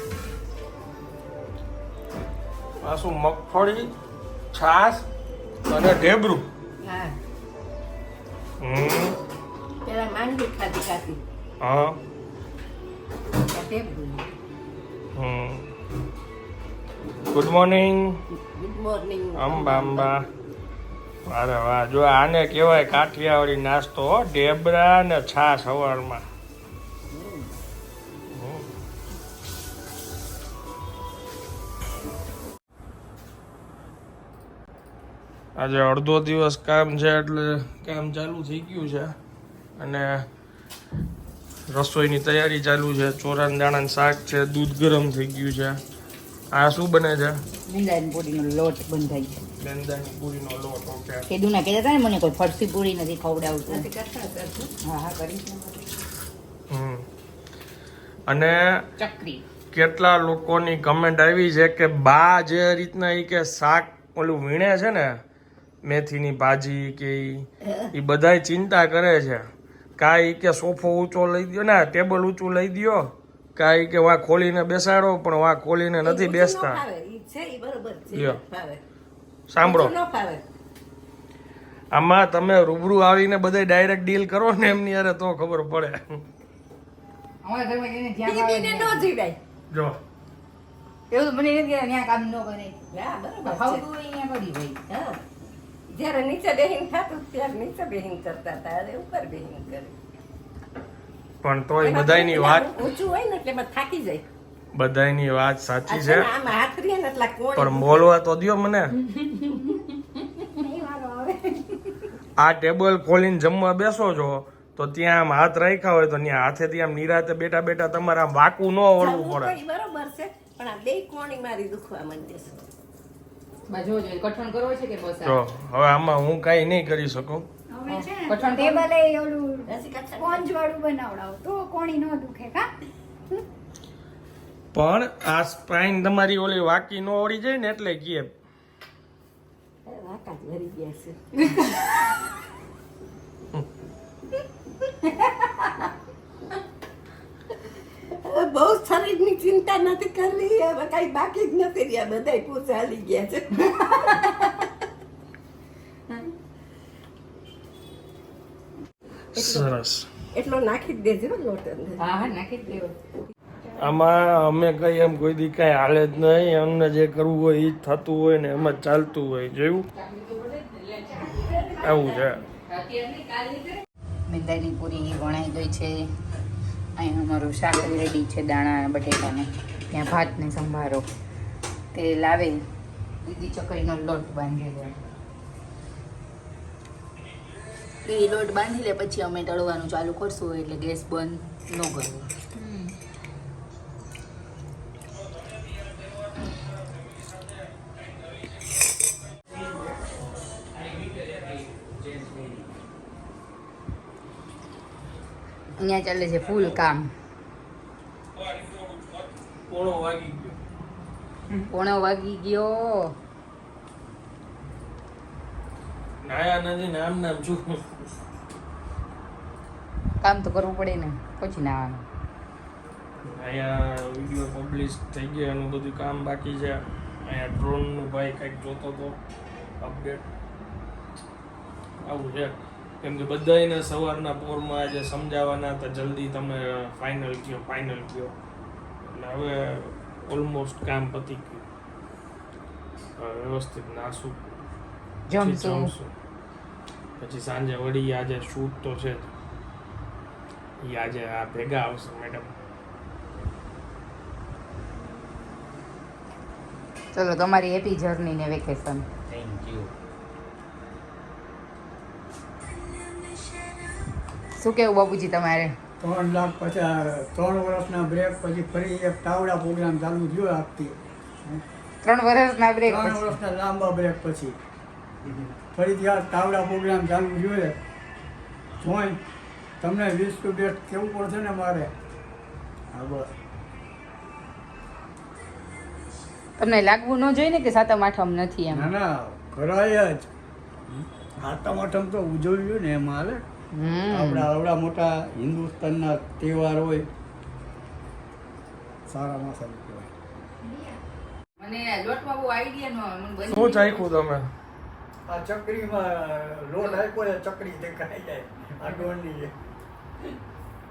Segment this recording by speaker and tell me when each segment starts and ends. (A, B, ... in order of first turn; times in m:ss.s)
0:02.8-0:03.9 A
0:04.5-0:05.0 A
0:05.7-0:06.5 A
0:06.8-0:07.1 B
0:08.6-0:09.2 A
0:09.8-0:11.2 B
0:11.6-0:12.0 A
0:13.6-0:14.2 B
0:15.1-0:15.7 A
0:17.3-0:18.2 A
0:18.3-0:20.2 B
0:19.3-0:20.2 A
0:21.3-0:26.2 A
0:27.1-0:27.5 B
0:28.3-0:28.7 A
0:35.6-0:39.1 A
0:39.8-0:40.2 A
0:41.7-0:45.8 A
0:46.5-0:47.4 A
0:47.7-0:49.4 C
0:49.6-0:51.2 A
0:51.3-0:53.8 C
0:53.7-0:54.7 B
0:54.8-0:55.8 C
0:56.7-0:57.0 A
0:58.3-0:58.8 A
0:59.0-0:59.4 C
0:59.7-1:05.2 A
1:05.8-1:09.4 A
1:07.6-1:07.9 B
1:10.0-1:16.8 A
1:16.0-1:18.8 B
1:18.1-1:18.4 A
1:19.5-1:20.0 A
1:19.6-1:20.4 B
1:21.9-1:26.2 A
1:27.4-1:29.1 C
1:28.2-1:29.4 B
1:29.7-1:30.0 A
1:31.1-1:32.8 C
1:32.9-1:33.8 B
1:33.4-1:34.8 C
1:34.9-1:35.2 B
1:35.9-1:39.9 B
1:41.4-1:42.7 A
1:41.8-1:44.2 B
1:44.7-1:46.3 A
1:45.8-1:48.0 B
1:47.6-1:49.0 A
1:49.5-1:49.8 D
1:50.6-1:52.0 D
1:52.4-1:59.6 A
1:59.0-2:02.6 B
2:03.7-2:05.4 C
2:05.2-2:07.4 A
2:07.7-2:12.7 D
2:07.9-2:08.8 C
2:09.7-2:10.4 B
2:14.7-2:18.3 A
2:19.8-2:21.2 B
2:28.1-2:34.4 B
2:34.1-2:34.4 C
2:39.3-2:39.7 B
2:39.4-2:40.1 A
2:40.3-2:42.0 B
2:42.0-2:42.9 C
2:43.8-2:49.9 A
2:49.9-2:51.8 C
2:51.8-2:52.4 A
2:52.6-2:56.0 C
2:57.0-3:01.0 C
3:01.9-3:02.6 C
3:03.2-3:05.0 C
3:08.0-3:12.8 C
3:21.0-3:22.5 A
3:25.8-3:27.1 C
3:28.3-3:30.6 A
3:31.5-3:33.1 C
3:36.2-3:37.8 A
3:40.2-3:42.0 C
3:43.3-3:49.2 A
3:49.8-3:50.2 A
3:52.0-3:58.3 A
3:59.0-4:01.6 A
4:03.2-4:04.6 A
4:05.3-4:05.9 C
4:05.4-4:06.1 A
4:07.2-4:09.3 A
4:10.8-4:12.5 A
4:17.1-4:19.0 C
4:19.4-4:19.8 A
4:24.6-4:25.7 C
4:26.0-4:31.6 E
4:32.0-4:33.2 C
4:32.8-4:34.6 E
4:35.7-4:37.8 E
4:38.8-4:39.2 E
4:39.8-4:41.9 E
4:42.9-4:43.3 E
4:46.6-4:48.9 C
4:48.7-4:50.3 E
4:50.9-4:53.4 E
4:53.7-4:54.5 C
4:54.1-4:57.1 E
4:59.1-5:00.1 E
5:00.6-5:01.0 D
5:01.6-5:04.0 C
5:03.5-5:04.5 A
5:05.2-5:09.5 E